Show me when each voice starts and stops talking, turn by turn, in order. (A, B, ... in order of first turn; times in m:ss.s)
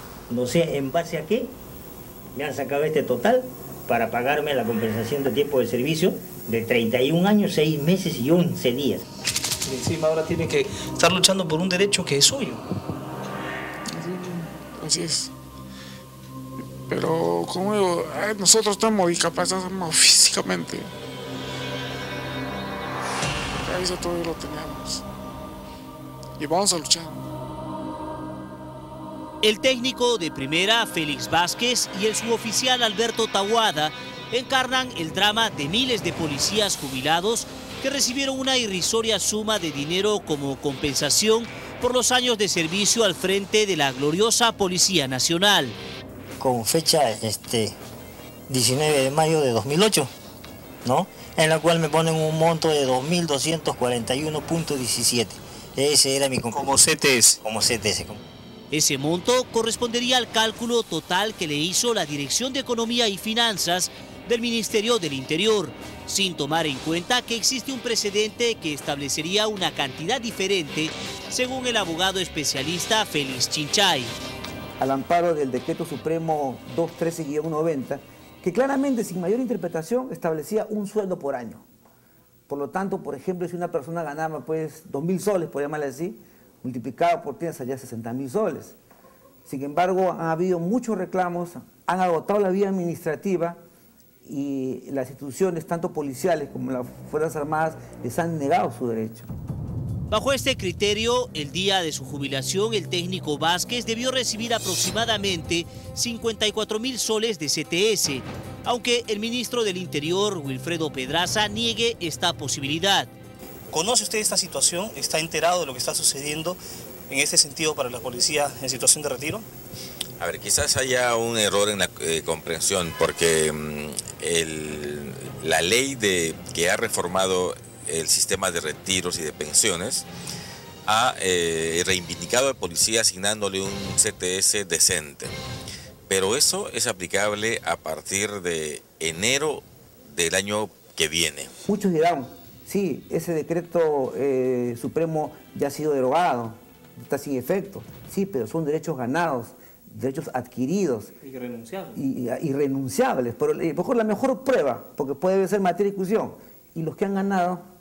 0:00.3-0:01.5 A
0:02.3-0:09.0 A
0:09.6-0:12.6 B
0:13.9-0:15.3 C
0:16.9-0:20.9 C
0:23.6-0:25.0 C
0:26.4-0:27.3 C
0:29.4-0:45.8 D
0:46.4-0:47.8 A
0:48.5-0:50.1 A
0:50.8-0:56.8 A
0:56.5-0:57.4 B
0:57.4-0:58.2 A
0:58.7-1:14.1 D
1:14.8-1:21.6 E
1:22.5-1:28.8 E
1:29.4-1:33.6 E
1:34.2-1:39.3 E
1:40.1-1:53.1 D
1:53.7-1:56.6 B
1:57.1-1:59.4 B
2:00.2-2:10.0 F
2:10.9-2:15.4 F
2:16.1-2:21.5 F
2:21.6-2:31.1 E
2:31.2-2:31.9 B
2:31.9-2:37.6 E